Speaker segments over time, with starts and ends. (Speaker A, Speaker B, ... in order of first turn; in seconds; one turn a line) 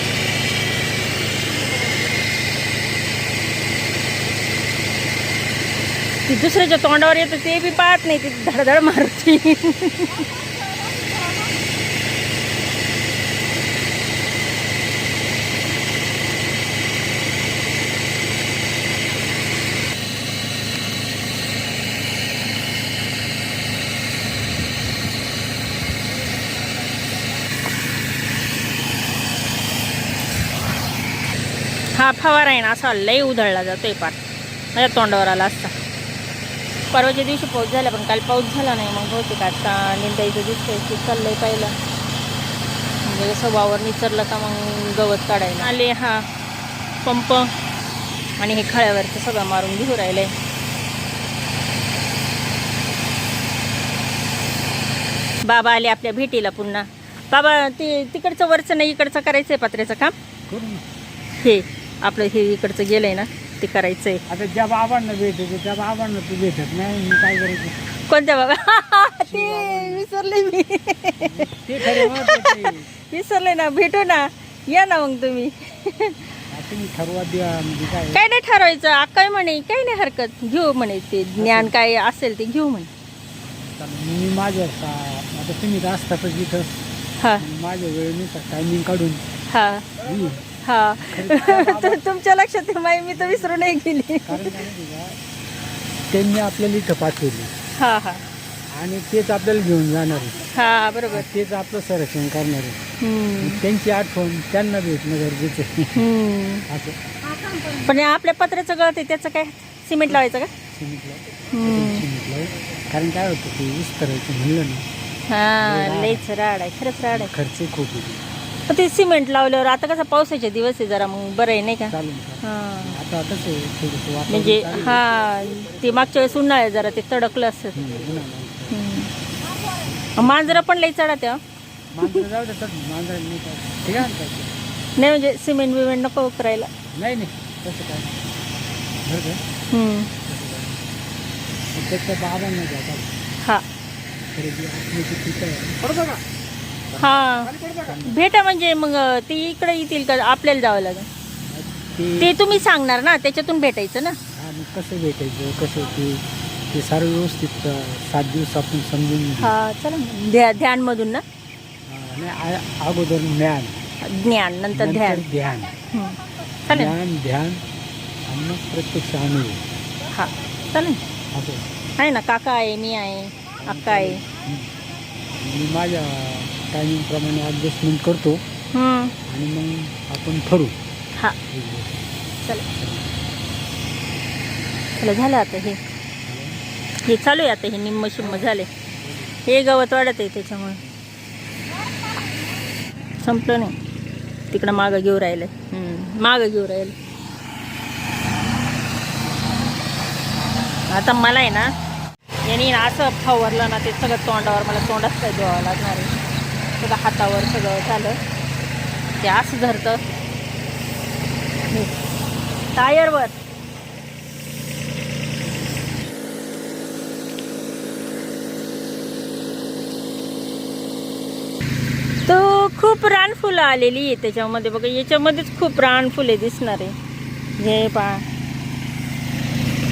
Speaker A: 6.2-10.3
Speaker A: 31.9-34.2
Speaker A: 34.7-35.8
Speaker A: 36.9-41.8
Speaker A: 43.0-46.3
Speaker A: 47.0-47.5
Speaker A: 48.4-50.3
Speaker A: 55.4-60.1
Speaker B: 60.5-60.8
Speaker A: 61.4-64.2
Speaker B: 64.3-67.8
Speaker A: 68.1-76.3
Speaker B: 69.3-70.0
Speaker B: 71.2-72.9
Speaker B: 76.5-78.2
Speaker A: 78.1-82.9
Speaker B: 81.4-81.7
Speaker B: 83.8-86.7
Speaker A: 87.2-87.4
Speaker B: 87.4-89.2
Speaker A: 89.5-89.9
Speaker B: 90.0-90.5
Speaker A: 90.6-94.6
Speaker B: 91.0-92.0
Speaker B: 94.2-95.2
Speaker B: 96.1-97.5
Speaker A: 97.8-98.2
Speaker B: 98.7-100.5
Speaker A: 100.5-101.3
Speaker B: 101.1-102.8
Speaker A: 103.0-103.6
Speaker B: 103.4-106.0
Speaker A: 105.9-106.7
Speaker B: 106.7-107.0
Speaker A: 107.8-110.5
Speaker B: 110.7-114.8
Speaker A: 111.5-112.0
Speaker A: 115.3-117.3
Speaker B: 115.6-116.2
Speaker B: 117.1-118.2
Speaker A: 118.7-123.0
Speaker B: 121.9-125.0
Speaker A: 124.3-127.8
Speaker B: 127.7-128.8
Speaker A: 128.7-129.1
Speaker B: 129.6-130.6
Speaker A: 130.2-131.4
Speaker B: 131.9-134.5
Speaker A: 135.0-136.7
Speaker B: 136.9-138.3
Speaker B: 139.0-139.4
Speaker A: 139.7-140.1
Speaker B: 140.2-140.8
Speaker B: 141.7-143.2
Speaker B: 144.3-146.2
Speaker A: 147.0-151.1
Speaker B: 147.6-148.2
Speaker B: 151.5-152.3
Speaker A: 152.2-154.2
Speaker B: 154.3-159.5
Speaker A: 159.4-161.2
Speaker B: 161.9-163.8
Speaker A: 164.0-165.2
Speaker B: 164.7-165.7
Speaker A: 165.9-166.9
Speaker B: 166.7-167.6
Speaker B: 168.2-169.6
Speaker A: 170.1-171.0
Speaker B: 171.3-171.7
Speaker A: 172.0-174.2
Speaker B: 173.6-174.7
Speaker B: 175.3-178.4
Speaker A: 178.7-179.2
Speaker B: 179.2-180.7
Speaker B: 181.5-182.1
Speaker B: 182.7-183.1
Speaker A: 184.9-185.8
Speaker B: 186.2-186.6
Speaker A: 187.0-188.7
Speaker B: 189.0-189.3
Speaker A: 189.4-190.8
Speaker A: 193.2-193.8
Speaker A: 194.5-196.9
Speaker A: 200.9-201.7
Speaker A: 202.4-206.1
Speaker A: 206.8-208.2
Speaker A: 209.2-210.0
Speaker A: 212.7-213.4
Speaker A: 222.2-226.9
Speaker A: 227.6-228.3